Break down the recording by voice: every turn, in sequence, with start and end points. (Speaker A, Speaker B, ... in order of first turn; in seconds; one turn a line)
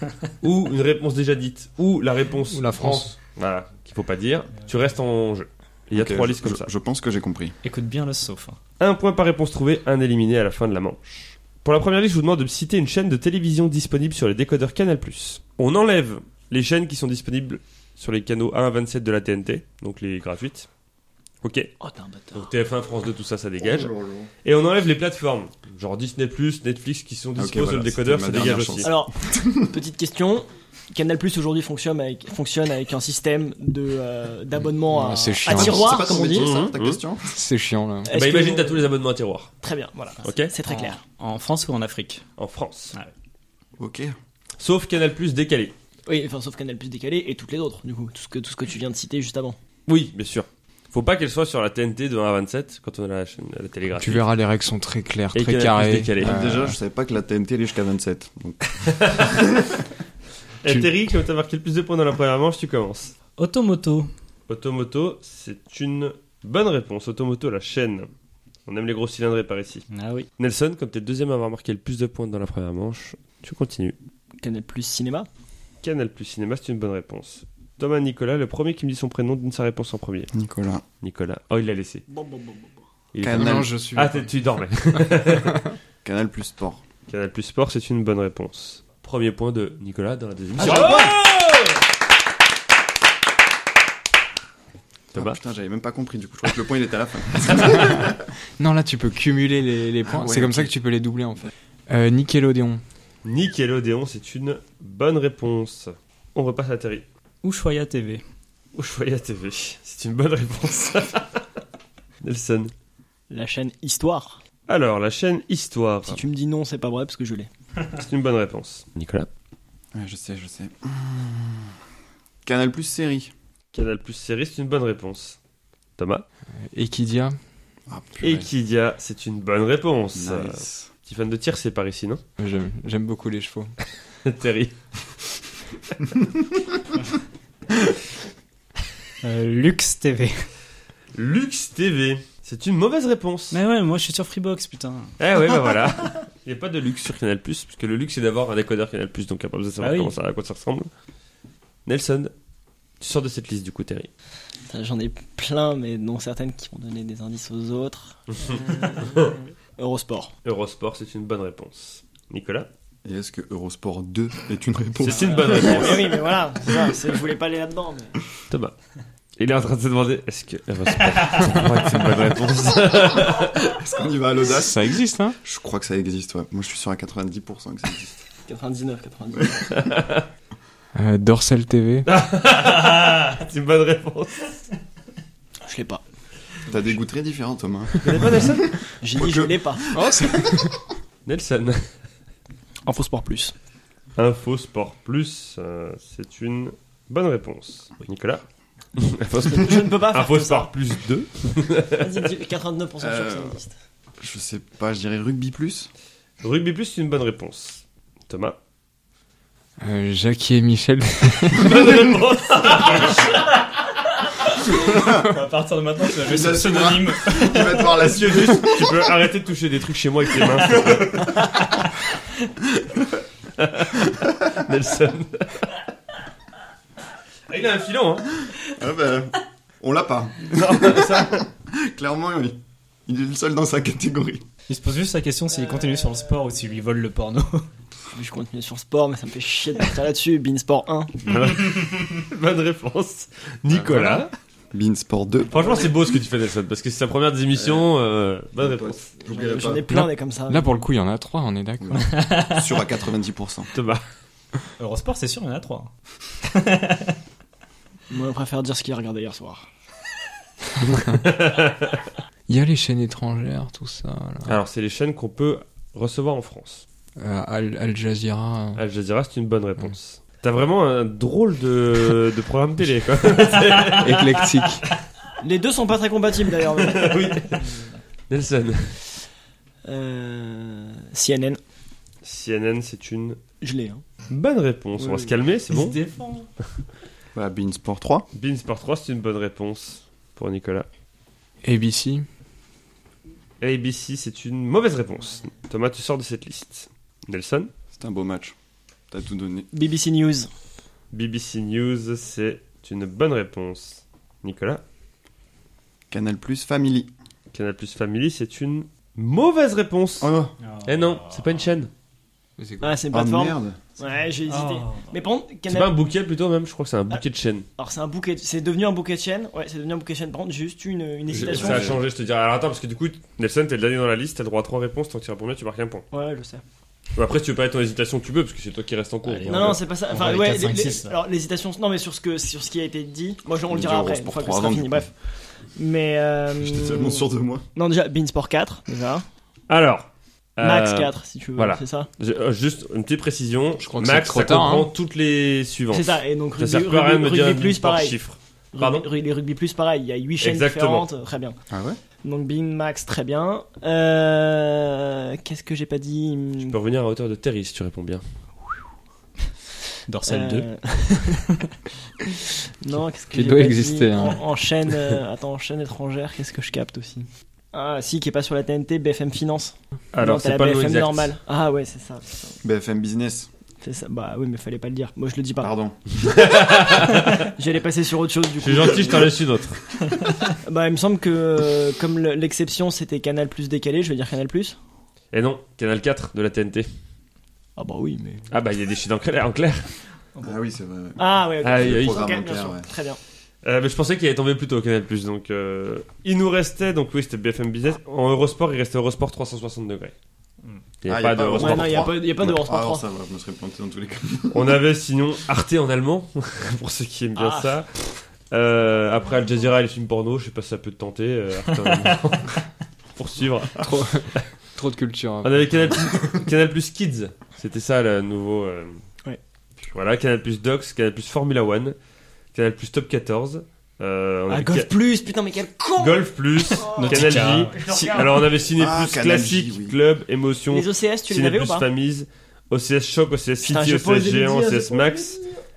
Speaker A: 0.4-6.7
Speaker B: 2.5-3.1
Speaker C: 5.9-7.5
Speaker D: 7.6-8.6
Speaker A: 8.8-20.7
Speaker A: 21.4-21.7
Speaker E: 21.8-22.5
Speaker A: 22.3-23.9
Speaker C: 23.6-24.3
Speaker A: 24.4-28.9
Speaker C: 27.4-29.8
Speaker E: 28.8-36.6
Speaker B: 34.6-36.0
Speaker C: 35.5-37.3
Speaker A: 36.3-37.0
Speaker B: 37.3-38.1
Speaker E: 38.1-38.9
Speaker A: 38.1-39.5
Speaker E: 39.6-41.0
Speaker A: 40.2-40.5
Speaker D: 40.6-42.2
Speaker A: 42.4-43.0
Speaker C: 43.8-44.2
Speaker A: 44.6-45.7
Speaker E: 46.1-49.6
Speaker A: 49.9-54.2
Speaker B: 54.0-56.8
Speaker A: 55.3-56.4
Speaker C: 56.2-59.5
Speaker A: 58.8-59.5
Speaker A: 60.6-63.1
Speaker B: 60.7-60.9
Speaker D: 63.4-64.1
Speaker A: 64.5-68.1
Speaker A: 68.7-69.8
Speaker D: 69.9-70.3
Speaker A: 70.4-74.0
Speaker E: 74.4-75.3
Speaker A: 75.8-80.3
Speaker C: 80.3-80.8
Speaker A: 81.0-82.0
Speaker E: 82.1-82.8
Speaker A: 83.1-85.6
Speaker C: 83.2-83.7
Speaker B: 83.3-84.3
Speaker C: 86.0-86.8
Speaker A: 87.1-91.1
Speaker C: 90.6-91.2
Speaker D: 90.7-91.0
Speaker A: 95.1-95.4
Speaker C: 95.1-98.2
Speaker B: 97.7-98.0
Speaker B: 98.6-102.8
Speaker C: 100.1-100.7
Speaker A: 103.2-107.0
Speaker D: 107.4-108.2
Speaker A: 108.7-111.4
Speaker A: 112.2-112.7
Speaker E: 113.3-114.4
Speaker A: 114.7-116.2
Speaker E: 116.1-117.5
Speaker A: 117.9-119.3
Speaker C: 119.9-121.7
Speaker C: 122.4-123.3
Speaker A: 123.7-125.4
Speaker A: 126.0-126.2
Speaker B: 126.5-127.4
Speaker C: 127.9-128.5
Speaker A: 128.2-132.2
Speaker C: 130.2-130.9
Speaker B: 132.4-133.7
Speaker A: 134.2-134.8
Speaker D: 139.2-140.5
Speaker A: 141.1-143.6
Speaker D: 143.5-145.6
Speaker A: 145.2-150.9
Speaker D: 149.8-150.2
Speaker A: 151.9-152.3
Speaker A: 153.0-154.1
Speaker E: 154.7-160.3
Speaker A: 158.3-159.4
Speaker A: 160.4-162.7
Speaker C: 163.1-167.0
Speaker A: 165.0-166.1
Speaker E: 165.2-168.2
Speaker A: 169.4-173.6
Speaker C: 173.2-174.9
Speaker B: 174.4-175.4
Speaker C: 175.4-178.2
Speaker E: 178.5-179.7
Speaker A: 179.7-180.2
Speaker B: 180.9-182.1
Speaker A: 182.1-184.5
Speaker E: 185.7-186.0
Speaker C: 186.7-190.7
Speaker A: 188.0-188.7
Speaker E: 189.0-189.8
Speaker B: 189.9-190.8
Speaker A: 191.2-191.9
Speaker E: 192.9-193.5
Speaker A: 194.2-198.4
Speaker A: 199.0-202.2
Speaker E: 199.4-200.7
Speaker E: 202.0-203.7
Speaker C: 203.0-203.6
Speaker C: 204.2-205.9
Speaker A: 206.4-208.6
Speaker B: 209.8-212.0
Speaker A: 211.5-213.3
Speaker D: 214.5-218.2
Speaker C: 214.8-215.3
Speaker C: 216.2-219.0
Speaker A: 218.0-221.3
Speaker C: 220.7-221.3
Speaker A: 223.6-225.7
Speaker A: 227.5-228.3
Speaker C: 228.6-234.5
Speaker A: 230.5-231.5
Speaker D: 234.7-237.7
Speaker E: 238.1-241.2
Speaker A: 241.2-244.3
Speaker C: 243.7-245.7
Speaker A: 245.5-249.1
Speaker E: 245.5-245.9
Speaker C: 247.5-247.9
Speaker C: 248.6-249.9
Speaker E: 249.3-250.7
Speaker B: 249.9-252.1
Speaker C: 251.8-253.7
Speaker D: 252.1-252.5
Speaker A: 253.7-254.0
Speaker D: 254.8-255.9
Speaker D: 256.4-257.2
Speaker E: 258.1-259.7
Speaker A: 261.1-262.1
Speaker B: 262.5-264.6
Speaker A: 264.5-266.9
Speaker B: 267.2-268.8
Speaker A: 268.8-274.3
Speaker B: 273.9-274.8
Speaker E: 275.4-277.9
Speaker A: 276.8-277.7
Speaker A: 278.3-279.0
Speaker E: 279.9-281.6
Speaker A: 282.2-283.4
Speaker E: 283.6-284.0
Speaker A: 284.3-286.0
Speaker E: 285.0-285.3
Speaker D: 285.7-286.5
Speaker C: 287.4-288.3
Speaker A: 288.3-290.9
Speaker B: 291.6-292.2
Speaker A: 293.6-297.7
Speaker C: 297.9-298.6
Speaker C: 299.1-299.7
Speaker E: 299.7-300.5
Speaker A: 301.1-304.8
Speaker C: 306.1-307.1
Speaker A: 307.5-310.3
Speaker C: 310.2-310.5
Speaker D: 310.6-311.6
Speaker A: 310.8-311.9
Speaker B: 312.6-313.0
Speaker E: 312.8-316.0
Speaker C: 313.1-313.8
Speaker D: 314.5-315.1
Speaker A: 315.7-317.7
Speaker E: 317.8-322.0
Speaker C: 321.3-322.0
Speaker A: 321.3-326.1
Speaker E: 326.1-326.6
Speaker A: 327.2-329.8
Speaker D: 329.2-331.2
Speaker E: 329.5-335.1
Speaker C: 333.6-335.1
Speaker E: 335.7-339.2
Speaker C: 336.6-337.6
Speaker A: 339.7-349.1
Speaker E: 340.6-342.1
Speaker B: 343.8-344.9
Speaker E: 345.9-348.2
Speaker E: 348.7-351.6
Speaker A: 350.4-351.1
Speaker C: 351.7-352.0
Speaker E: 352.2-356.8
Speaker A: 356.6-358.2
Speaker D: 360.1-361.6
Speaker E: 360.2-361.6
Speaker E: 362.8-372.4
Speaker B: 363.3-364.4
Speaker A: 370.1-371.4
Speaker C: 372.6-373.5
Speaker E: 373.8-375.7
Speaker C: 375.6-376.2
Speaker A: 376.2-377.5
Speaker E: 377.4-379.3
Speaker A: 378.6-379.8
Speaker E: 380.5-384.8
Speaker A: 385.3-386.9
Speaker E: 387.8-388.5
Speaker A: 388.5-389.9
Speaker C: 390.4-392.9
Speaker E: 391.2-393.2
Speaker A: 391.6-392.4
Speaker A: 393.6-400.1
Speaker A: 401.0-402.1
Speaker C: 401.1-404.8
Speaker E: 401.5-403.1
Speaker A: 404.5-412.6
Speaker E: 407.4-407.8
Speaker A: 413.1-414.4
Speaker B: 413.8-416.0
Speaker A: 415.4-419.0
Speaker A: 419.9-422.0
Speaker A: 422.5-424.9
Speaker E: 424.5-428.6
Speaker A: 426.0-435.4
Speaker D: 426.9-427.8
Speaker C: 428.8-430.0
Speaker E: 430.7-431.9
Speaker E: 433.6-435.6